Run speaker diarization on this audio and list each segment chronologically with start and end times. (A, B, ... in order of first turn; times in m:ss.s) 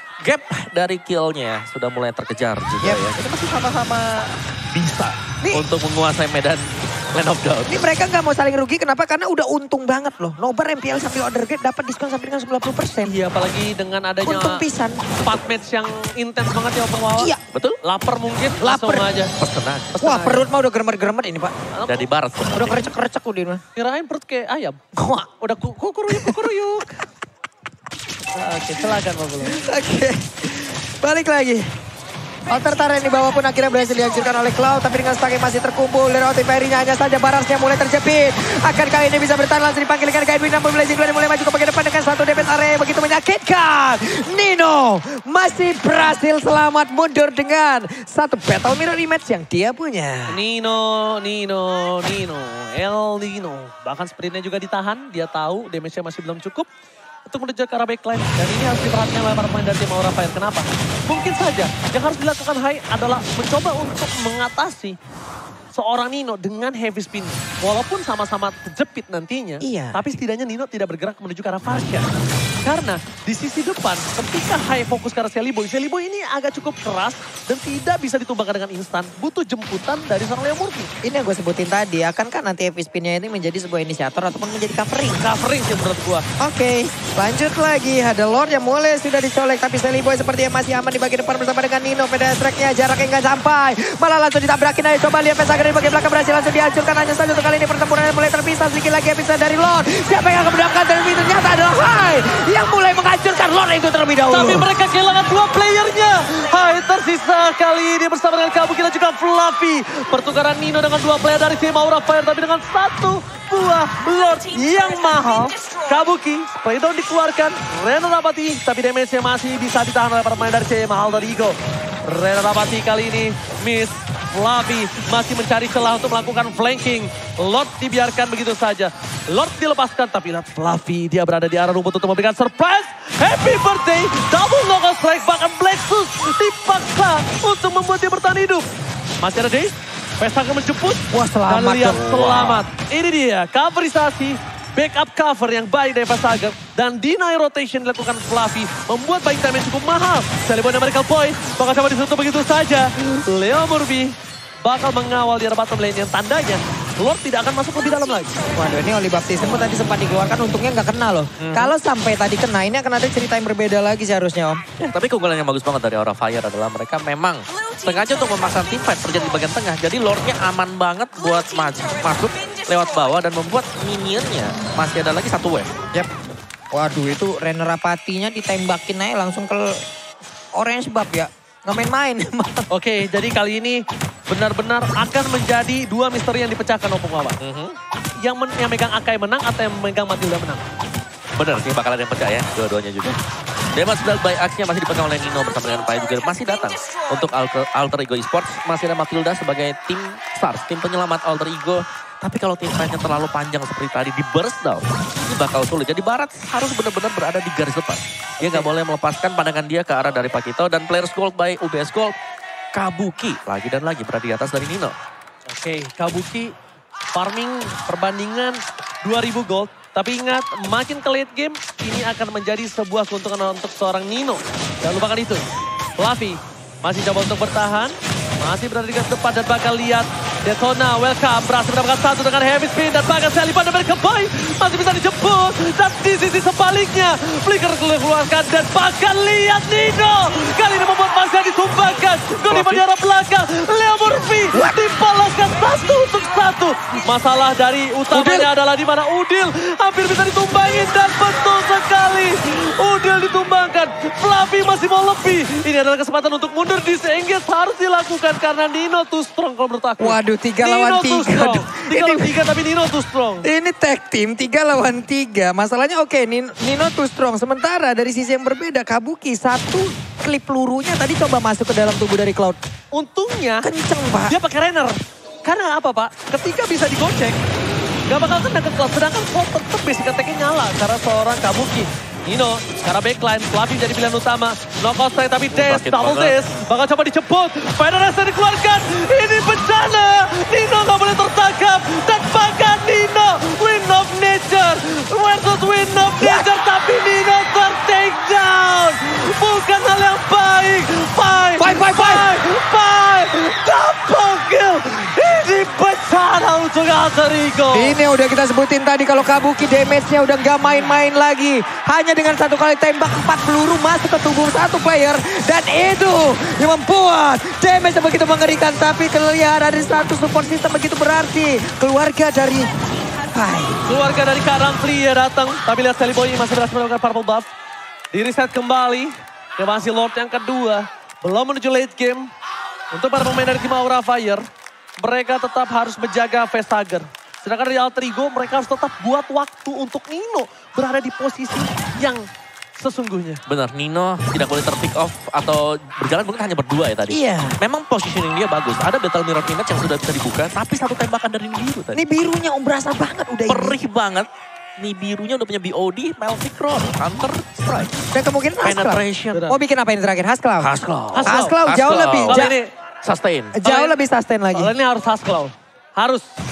0:00.2-0:07.8 A
0:07.7-0:13.1 B
0:13.0-0:14.6 C
0:14.2-0:15.0 B
0:15.2-0:19.3 C
0:17.2-0:17.4 B
0:18.6-0:19.1 B
0:19.4-0:20.1 A
0:20.0-0:20.4 C
0:20.0-0:21.5 B
0:21.7-0:22.0 C
0:21.9-0:22.9 A
0:22.5-0:23.6 B
0:23.8-0:24.8 C
0:25.0-0:25.3 B
0:25.4-0:27.0 C
0:26.1-0:26.5 B
0:28.3-0:29.6 C
0:29.4-0:31.6 B
0:32.5-0:50.4 B
0:50.3-0:56.7 C
0:57.3-1:05.0 C
1:05.7-1:12.1 C
1:09.6-1:10.0 B
1:12.6-1:20.9 C
1:21.0-1:25.2 B
1:25.2-1:26.2 C
1:26.4-1:44.6 B
1:44.3-2:18.7 C
2:19.2-2:38.3 C
2:21.1-2:22.0 B
2:22.0-2:22.6 A
2:38.5-2:44.6 B
2:41.4-2:41.7 A
2:44.8-2:55.7 A
2:56.7-2:59.7 B
3:00.5-3:02.6 B
3:02.7-3:07.4 C
3:07.4-3:07.8 A
3:08.2-3:10.6 C
3:11.4-3:13.2 A
3:13.7-3:32.1 A
3:28.4-3:28.7 C
3:32.7-3:34.9 A
3:35.5-3:36.5 C
3:37.1-4:23.5 C
4:02.5-4:02.8 A
4:08.1-4:08.5 B
4:20.0-4:22.4 B
4:23.4-4:32.6 B
4:32.9-4:33.7 C
4:33.6-4:34.4 B
4:34.3-4:37.4 C
4:38.1-5:08.0 C
4:45.5-4:46.4 A
4:56.2-4:56.4 B
5:01.6-5:02.2 B
5:07.7-5:22.7 B
5:23.3-5:23.8 B
5:23.8-5:27.5 C
5:28.1-5:32.3 C
5:32.9-5:34.4 C
5:35.0-5:42.2 C
5:42.8-5:43.4 C
5:43.5-5:52.0 A
5:47.1-5:47.6 B
5:51.9-5:53.8 B
5:53.5-5:54.3 A
5:54.8-5:57.9 A
5:58.1-6:00.7 B
5:58.6-5:59.4 A
6:00.6-6:02.5 A
6:01.1-6:01.5 C
6:01.2-6:02.6 B
6:02.3-6:02.7 C
6:03.0-6:03.6 A
6:03.5-6:04.7 B
6:03.6-6:04.0 C
6:04.5-6:06.2 C